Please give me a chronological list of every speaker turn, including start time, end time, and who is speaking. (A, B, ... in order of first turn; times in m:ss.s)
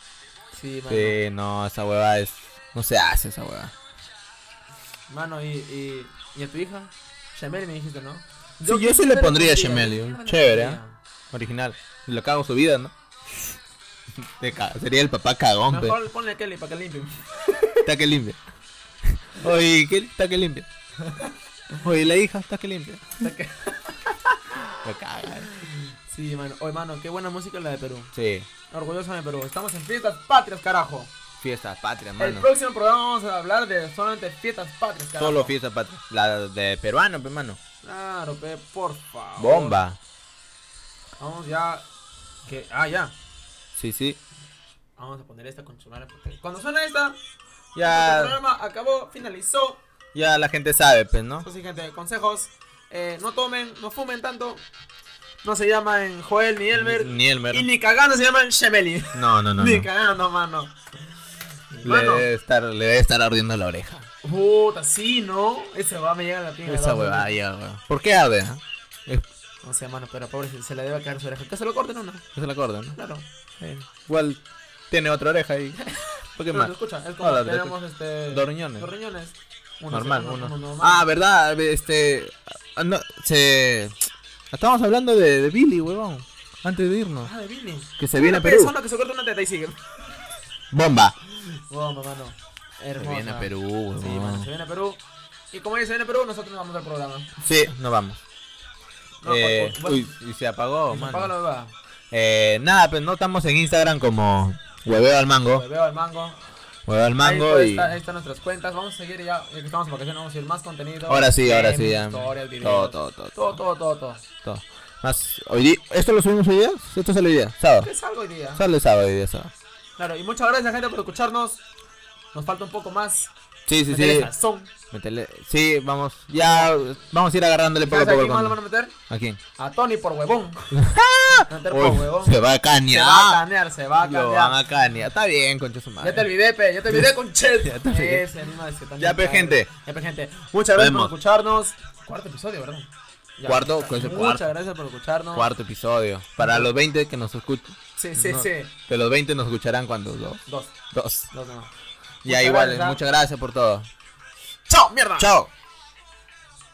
0:00.5-0:01.2 A
0:00.9-0:03.7 B
0:05.1-0:11.0 A
0:08.7-0:10.8 B
0:11.3-0:12.9 B
0:14.2-0:16.0 B
0:15.7-0:17.9 A
0:17.8-0:18.4 B
0:19.1-0:20.7 B
0:21.0-0:21.3 A
0:21.8-0:23.3 B
0:23.2-0:24.2 A
0:24.6-0:25.5 B
0:25.6-0:28.1 A
0:28.1-0:28.5 B
0:28.7-0:31.1 A
0:31.4-0:32.5 B
0:32.2-0:35.6 A
0:35.2-0:37.6 B
0:37.8-0:39.8 A
0:39.4-0:40.0 B
0:41.2-0:41.9 A
0:42.5-0:43.2 A
0:43.8-0:44.2 B
0:45.0-0:47.2 A
0:47.8-0:48.4 B
0:47.8-0:49.8 A
0:50.1-0:51.5 B
0:51.4-0:54.6 A
0:55.4-1:00.8 A
0:56.7-0:57.7 B
0:59.1-0:59.9 B
1:01.7-1:02.3 A
1:01.8-1:04.1 B
1:04.2-1:07.3 A
1:06.7-1:09.3 B
1:09.6-1:12.2 A
1:12.4-1:13.0 B
1:13.0-1:13.9 A
1:14.0-1:15.8 B
1:15.8-1:21.1 A
1:16.4-1:17.8 B
1:18.3-1:18.9 B
1:19.9-1:24.0 B
1:24.5-1:27.3 B
1:27.2-1:29.8 A
1:28.0-1:28.7 B
1:30.7-1:31.2 B
1:31.3-1:35.0 A
1:33.0-1:34.5 B
1:35.5-1:37.3 A
1:37.4-1:38.2 B
1:39.2-1:40.1 A
1:39.2-1:41.3 B
1:40.9-1:41.8 A
1:42.1-1:45.6 B
1:45.5-1:46.4 A
1:46.9-1:48.0 B
1:47.2-1:54.2 A
1:51.1-1:53.6 B
1:54.4-1:57.9 B
1:57.8-1:58.6 A
1:58.6-1:59.5 B
2:00.0-2:01.6 A
2:02.3-2:03.3 A
2:03.7-2:04.3 B
2:03.9-2:04.7 A
2:04.9-2:08.6 B
2:06.4-2:06.7 A
2:07.8-2:09.0 A
2:09.1-2:09.4 B
2:09.6-2:10.8 A
2:10.7-2:13.4 B
2:11.5-2:14.6 A
2:14.0-2:16.3 B
2:16.0-2:25.5 A
2:16.9-2:18.2 B
2:19.0-2:19.7 B
2:20.6-2:21.1 B
2:23.4-2:24.5 B
2:25.3-2:31.3 B
2:26.4-2:26.7 A
2:28.0-2:28.7 A
2:30.5-2:30.8 A
2:31.3-2:31.7 A
2:32.2-2:33.9 B
2:32.3-2:33.0 A
2:34.7-2:35.3 A
2:35.2-2:35.5 B